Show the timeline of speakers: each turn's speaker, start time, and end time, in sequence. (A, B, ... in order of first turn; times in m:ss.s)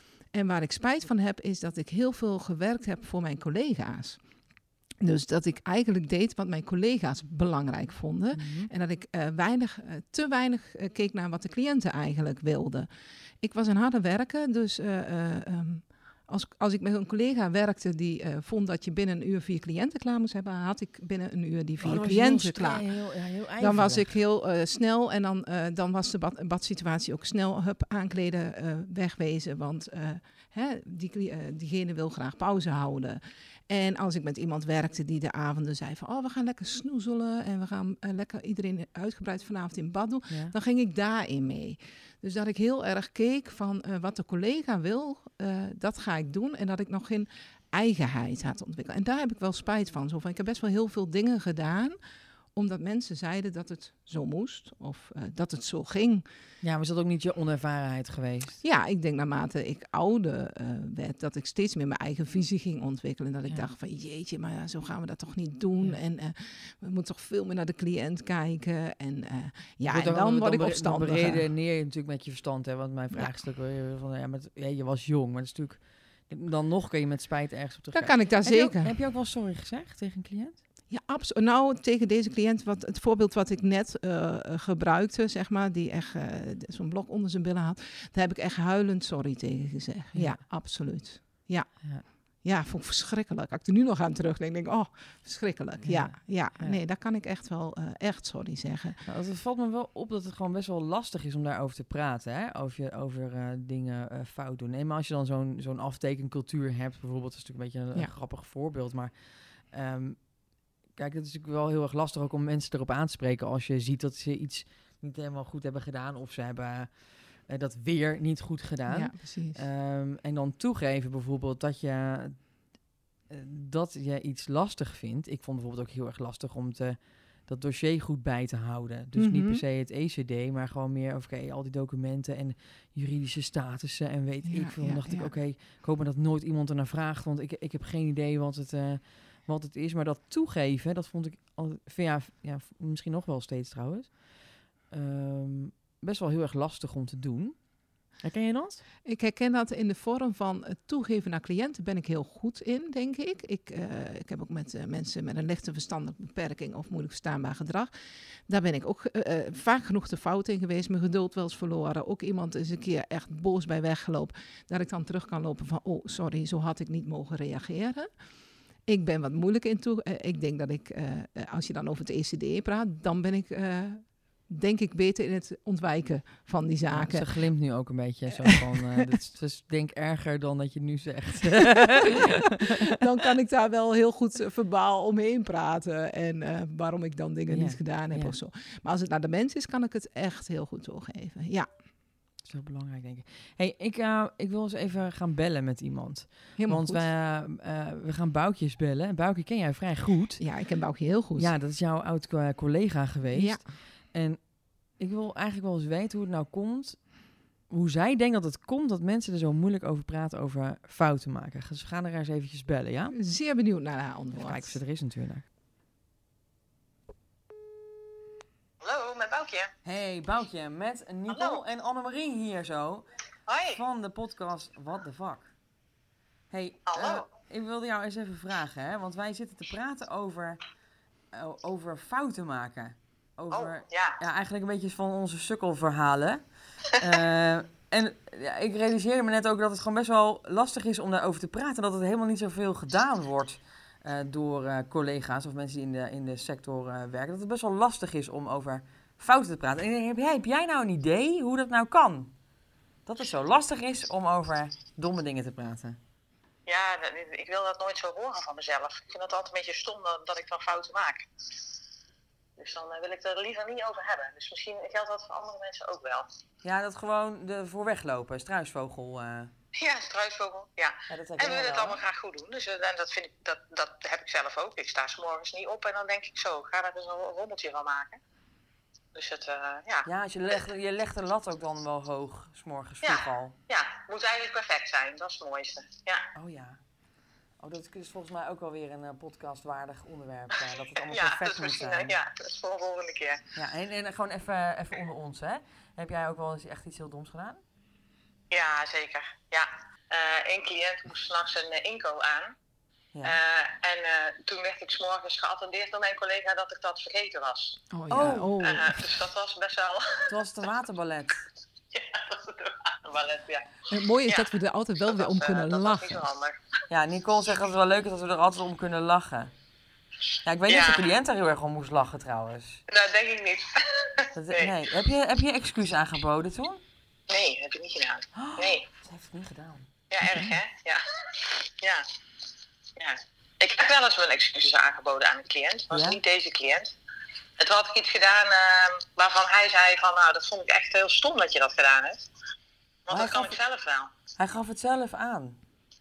0:00.2-0:12.9 A
0:08.3-0:08.7 B
0:13.4-0:51.9 A
0:21.8-0:24.1 B
0:40.3-0:40.5 B
0:52.5-0:56.2 A
0:56.6-0:58.6 B
0:58.6-1:11.5 A
1:09.9-1:20.6 B
1:13.1-1:13.4 A
1:17.9-1:19.0 A
1:20.9-1:39.0 A
1:30.1-1:30.4 B
1:35.8-1:36.8 B
1:39.0-2:28.8 B
1:58.9-1:59.6 A
2:09.1-2:09.6 A
2:14.4-2:15.3 A
2:29.0-2:37.9 A
2:38.5-2:48.1 A
2:48.8-2:57.5 A
2:56.9-3:02.5 B
2:58.4-2:59.0 A
3:02.8-3:11.7 A
3:07.5-3:08.4 B
3:12.4-3:20.4 B
3:16.6-3:17.1 A
3:20.4-3:21.5 A
3:21.4-3:33.2 B
3:23.3-3:23.7 A
3:33.1-3:34.8 A
3:34.3-3:35.4 B
3:38.8-3:39.7 C
3:39.8-3:43.1 B
3:41.3-3:41.6 C
3:43.5-3:43.8 C
3:43.7-3:45.5 B
3:46.5-3:50.6 B
3:46.9-3:47.2 C
3:51.3-4:12.3 B
3:53.5-3:54.2 C
4:13.0-4:16.0 B
4:16.7-4:21.3 C
4:22.6-4:26.3 C
4:26.6-4:29.5 B
4:29.7-4:38.2 C
4:31.1-4:32.0 B
4:39.1-4:40.6 C
4:40.0-4:43.5 B
4:43.0-4:46.2 C
4:46.3-4:46.8 B
4:47.6-4:52.2 B
4:51.1-4:53.4 C
4:53.6-4:57.6 B
4:58.5-5:02.5 C
5:03.1-5:03.4 B
5:03.2-5:07.8 C
5:07.9-5:09.0 A
5:08.1-5:08.5 B
5:08.6-5:10.3 C
5:10.3-5:11.4 B
5:11.9-5:13.7 C
5:13.9-5:16.2 A
5:15.1-5:16.6 C
5:16.9-5:19.5 B
5:20.4-5:22.8 B
5:20.7-5:21.1 C
5:22.9-5:24.7 C
5:24.3-5:26.8 B
5:27.3-5:28.8 C
5:28.3-5:30.6 B
5:30.1-5:32.0 C
5:33.0-5:36.9 C
5:35.9-5:36.2 B
5:37.6-5:42.3 C
5:43.1-5:44.1 C
5:43.1-5:43.6 B
5:44.4-5:45.6 B